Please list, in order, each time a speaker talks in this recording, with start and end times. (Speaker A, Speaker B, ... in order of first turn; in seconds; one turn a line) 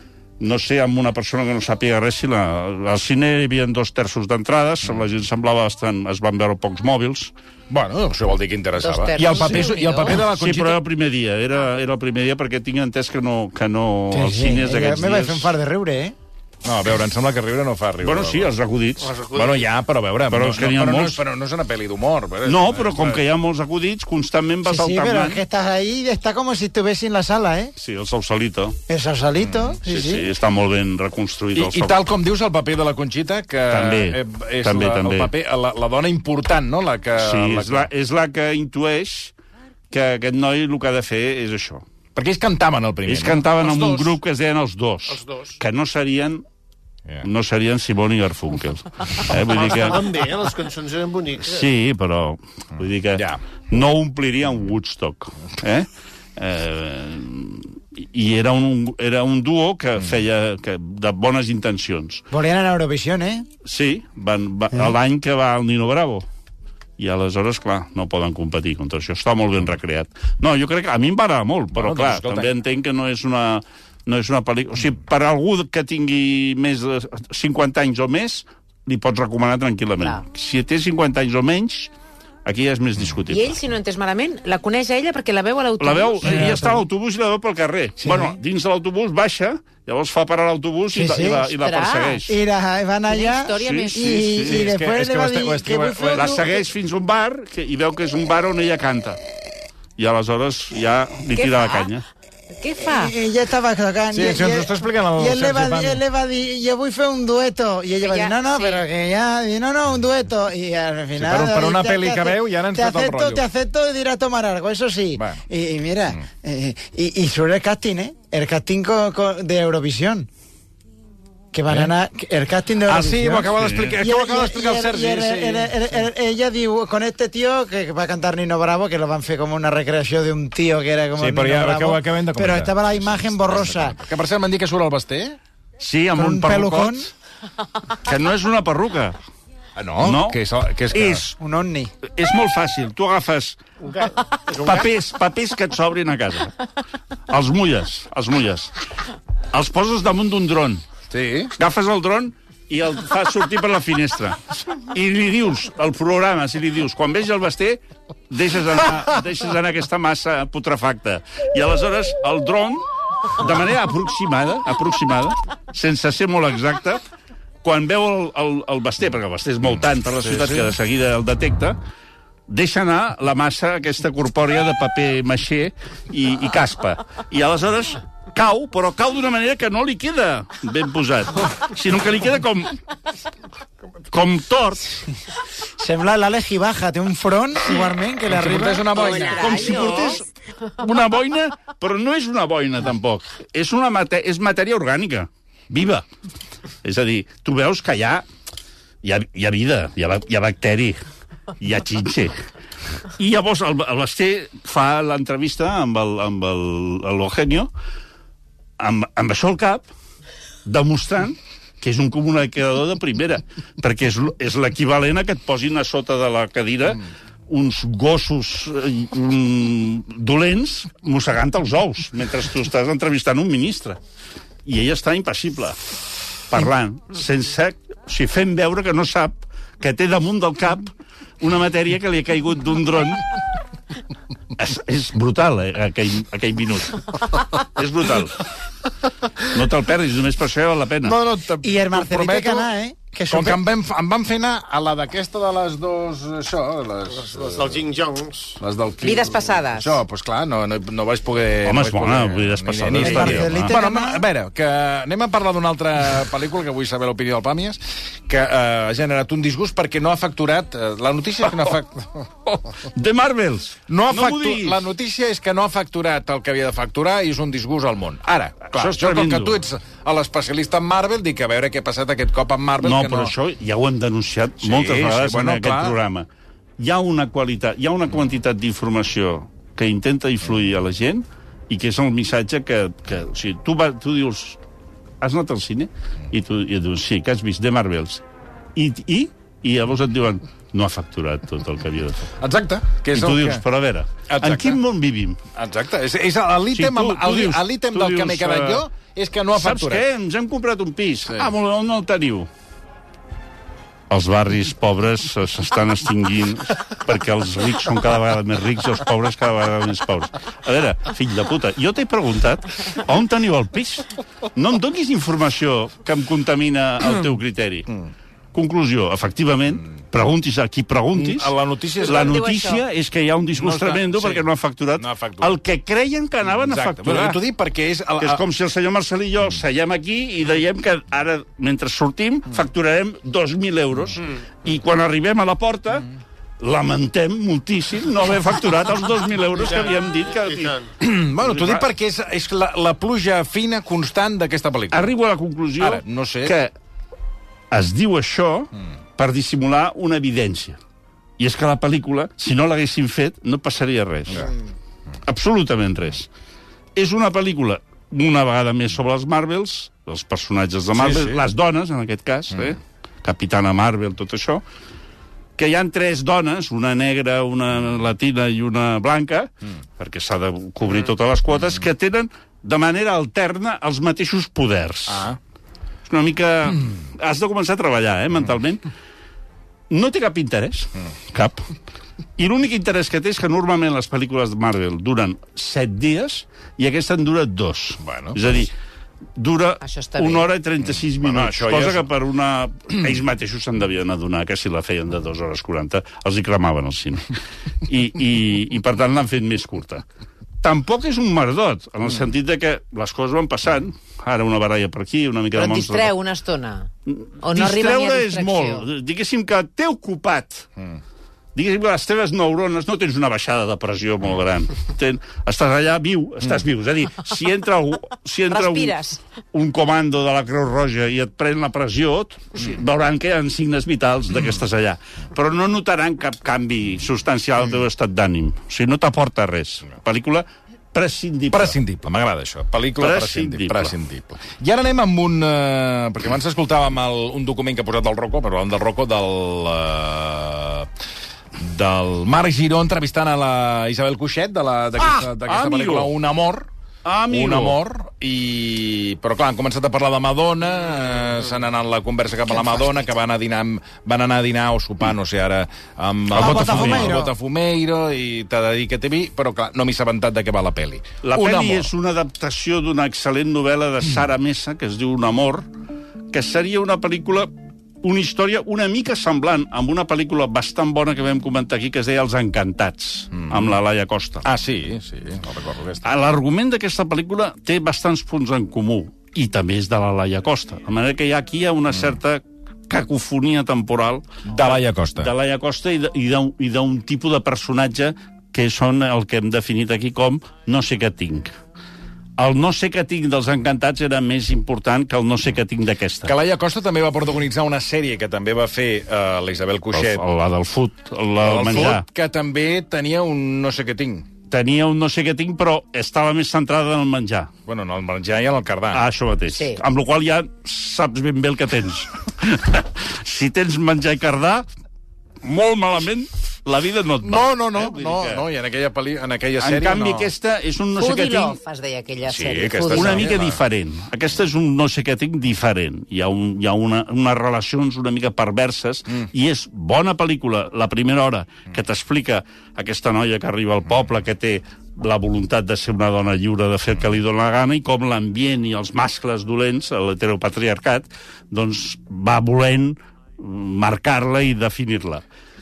Speaker A: 0.4-7.3
Speaker B: 7.7-10.8
Speaker C: 8.8-10.2
Speaker A: 9.2-15.5
Speaker D: 14.1-16.1
Speaker B: 16.6-18.5
Speaker A: 18.0-19.1
Speaker E: 19.0-19.7
Speaker B: 19.3-23.2
Speaker A: 20.3-21.2
Speaker A: 22.4-25.4
Speaker D: 24.6-27.7
Speaker A: 27.8-28.8
Speaker D: 28.9-30.3
Speaker B: 29.4-29.7
Speaker A: 29.8-32.0
Speaker B: 31.5-37.9
Speaker A: 33.7-35.3
Speaker A: 37.2-39.3
Speaker A: 39.9-41.8
Speaker B: 42.1-43.5
Speaker A: 43.1-46.5
Speaker E: 43.6-44.1
Speaker E: 45.1-45.6
Speaker A: 47.2-50.0
Speaker E: 49.5-51.7
Speaker A: 51.4-62.3
Speaker B: 53.1-53.4
Speaker D: 62.3-63.5
Speaker A: 63.6-66.3
Speaker A: 67.0-81.9
Speaker B: 71.7-72.5
Speaker A: 82.5-83.6
Speaker C: 83.3-86.5
Speaker A: 85.8-92.4
Speaker D: 86.2-86.8
Speaker D: 88.0-88.4
Speaker D: 90.9-91.5
Speaker C: 91.5-92.2
Speaker D: 92.3-96.6
Speaker C: 93.1-94.2
Speaker A: 93.6-94.7
Speaker B: 94.4-96.4
Speaker A: 96.1-99.2
Speaker A: 100.0-102.0
Speaker C: 101.4-101.9
Speaker C: 102.6-103.2
Speaker D: 102.8-120.3
Speaker B: 104.1-106.0
Speaker C: 108.0-108.8
Speaker B: 111.2-113.5
Speaker B: 115.1-115.4
Speaker D: 121.5-134.0
Speaker B: 121.7-121.9
Speaker B: 122.8-126.1
Speaker A: 123.5-124.0
Speaker B: 131.2-135.4
Speaker A: 135.8-137.1
Speaker D: 136.2-137.1
Speaker A: 137.9-139.2
Speaker B: 139.8-141.2
Speaker A: 140.0-140.4
Speaker A: 140.9-141.3
Speaker D: 141.4-141.9
Speaker A: 142.1-143.6
Speaker E: 143.8-144.9
Speaker A: 144.5-146.6
Speaker A: 147.3-148.7
Speaker A: 149.5-150.8
Speaker B: 151.1-151.5
Speaker A: 151.6-167.0
Speaker A: 167.6-171.8
Speaker B: 170.2-170.7
Speaker A: 172.5-182.8
Speaker A: 184.1-184.9
Speaker D: 185.8-189.3
Speaker B: 188.3-189.9
Speaker C: 188.9-190.2
Speaker A: 189.3-190.3
Speaker A: 190.8-196.1
Speaker A: 196.8-198.2
Speaker A: 199.0-201.1
Speaker A: 201.6-202.4
Speaker A: 203.2-207.7
Speaker A: 208.8-209.9
Speaker A: 210.7-224.0
Speaker A: 224.7-225.8
Speaker A: 226.5-233.4
Speaker A: 234.6-238.5
Speaker A: 239.4-241.2
Speaker B: 241.0-242.7
Speaker D: 241.6-243.6
Speaker B: 243.3-247.8
Speaker E: 247.1-248.6
Speaker B: 248.6-262.6
Speaker C: 249.0-250.0
Speaker A: 251.6-253.8
Speaker D: 253.0-254.2
Speaker A: 262.8-264.9
Speaker B: 263.9-273.3
Speaker A: 268.7-269.6
Speaker A: 272.8-276.3
Speaker B: 274.6-276.0
Speaker A: 276.8-284.6
Speaker A: 285.2-288.2
Speaker A: 288.8-292.3
Speaker B: 292.4-293.6
Speaker A: 293.1-295.4
Speaker B: 294.3-294.8
Speaker B: 295.5-300.1
Speaker A: 296.7-298.8
Speaker A: 299.5-302.5
Speaker A: 304.1-317.9
Speaker A: 318.5-327.4
Speaker B: 321.1-322.5
Speaker C: 322.2-322.8
Speaker B: 323.5-325.6
Speaker B: 326.6-328.4
Speaker A: 328.2-336.1
Speaker A: 336.6-340.8
Speaker E: 339.6-340.9
Speaker B: 341.0-345.1
Speaker A: 341.4-341.9
Speaker A: 344.9-346.7
Speaker B: 345.8-346.6
Speaker A: 347.7-350.8
Speaker A: 351.4-354.5
Speaker A: 355.3-356.3
Speaker A: 357.0-364.6
Speaker B: 360.9-361.4
Speaker A: 365.6-375.3
Speaker B: 375.1-375.4
Speaker A: 376.1-378.9
Speaker A: 379.9-381.7
Speaker A: 382.4-388.7
Speaker B: 388.0-388.6
Speaker A: 389.4-400.0
Speaker C: 389.8-390.5
Speaker B: 391.2-392.1
Speaker A: 400.6-406.1
Speaker C: 405.5-406.9
Speaker A: 407.1-410.7
Speaker C: 407.4-408.9
Speaker A: 411.6-419.0
Speaker C: 418.5-419.2
Speaker A: 419.5-431.8
Speaker B: 431.5-440.9
Speaker A: 433.0-433.9
Speaker B: 441.6-446.7
Speaker A: 445.0-446.1
Speaker A: 447.1-447.8
Speaker B: 447.3-461.9
Speaker D: 456.3-457.3
Speaker A: 456.3-457.2
Speaker A: 461.2-465.7
Speaker A: 466.3-474.4
Speaker B: 473.4-473.7
Speaker B: 474.4-476.1
Speaker A: 476.0-491.6
Speaker B: 484.5-485.3
Speaker A: 492.4-496.3
Speaker B: 496.2-500.2
Speaker A: 499.9-502.1
Speaker B: 501.4-504.3
Speaker A: 504.5-507.5
Speaker B: 507.7-509.1
Speaker A: 508.9-514.7
Speaker C: 509.5-509.8
Speaker A: 515.4-518.5
Speaker B: 517.2-520.3
Speaker A: 519.6-521.6
Speaker C: 521.0-523.3
Speaker B: 522.3-523.6
Speaker A: 522.9-545.2